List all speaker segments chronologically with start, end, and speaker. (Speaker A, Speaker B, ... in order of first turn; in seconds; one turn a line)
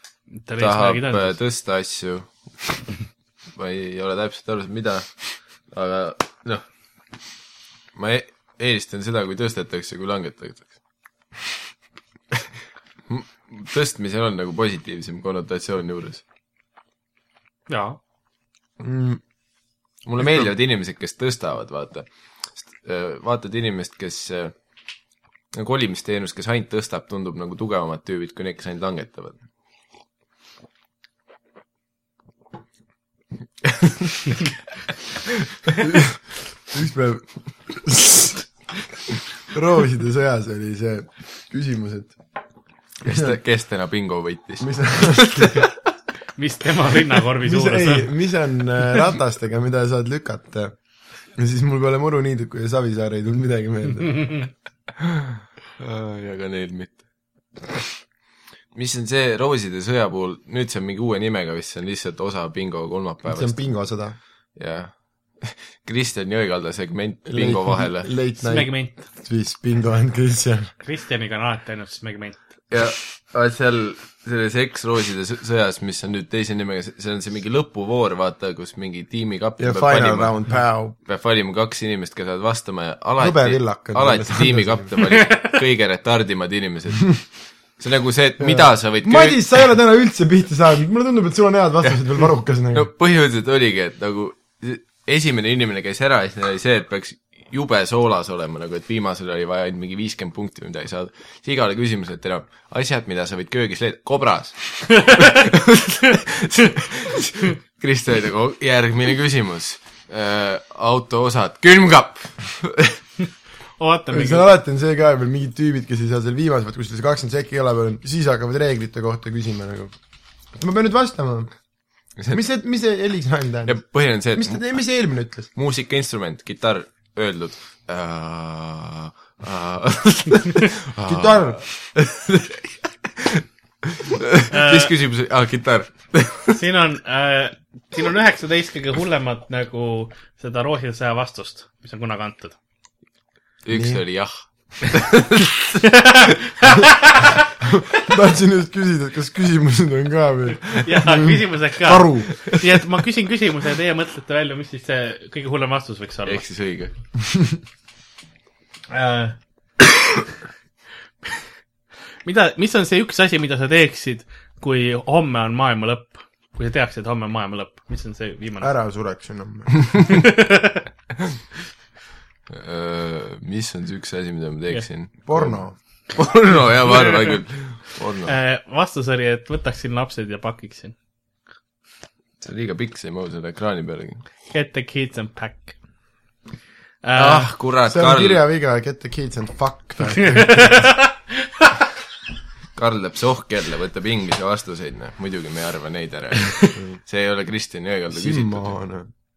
Speaker A: 0.5-1.4
Speaker B: 0.6-2.3
Speaker B: 3.5-6.6
Speaker B: 8.0-10.7
Speaker B: 13.1-16.2
Speaker A: 17.7-18.0
Speaker C: 18.8-19.2
Speaker B: 20.1-24.5
Speaker B: 25.5-29.4
Speaker C: 35.8-36.2
Speaker C: 36.7-38.4
Speaker C: 39.5-42.2
Speaker B: 43.0-45.7
Speaker C: 43.0-43.3
Speaker C: 44.6-45.7
Speaker A: 46.4-48.1
Speaker C: 47.4-50.8
Speaker C: 51.4-54.4
Speaker A: 54.2-54.5
Speaker B: 55.8-57.0
Speaker B: 58.7-63.7
Speaker C: 63.3-64.2
Speaker B: 64.6-68.1
Speaker C: 67.3-70.7
Speaker A: 68.4-69.1
Speaker A: 70.8-72.4
Speaker B: 72.7-80.4
Speaker C: 79.6-81.0
Speaker B: 81.0-89.6
Speaker C: 83.2-85.0
Speaker A: 85.2-85.6
Speaker C: 88.4-92.9
Speaker B: 92.7-113.0
Speaker A: 113.8-114.5
Speaker C: 114.1-120.0
Speaker C: 120.5-121.5
Speaker C: 122.3-123.8
Speaker B: 123.7-124.7
Speaker C: 124.3-125.5
Speaker B: 125.5-136.6
Speaker C: 131.1-131.6
Speaker A: 134.5-134.9
Speaker A: 136.6-142.6
Speaker B: 143.7-145.8
Speaker C: 143.7-144.0
Speaker A: 145.9-147.5
Speaker C: 147.6-152.4
Speaker A: 150.7-156.4
Speaker B: 156.3-156.9
Speaker C: 157.2-157.6
Speaker A: 158.9-159.4
Speaker A: 162.2-168.7
Speaker C: 168.6-169.9
Speaker A: 170.1-170.8
Speaker B: 172.5-178.3
Speaker C: 175.3-175.8
Speaker A: 176.9-177.4
Speaker A: 178.2-180.9
Speaker B: 182.4-184.2
Speaker A: 184.5-185.8
Speaker A: 187.0-187.5
Speaker B: 187.2-188.4
Speaker C: 187.9-190.9
Speaker A: 190.4-191.7
Speaker B: 192.8-198.7
Speaker C: 198.1-199.1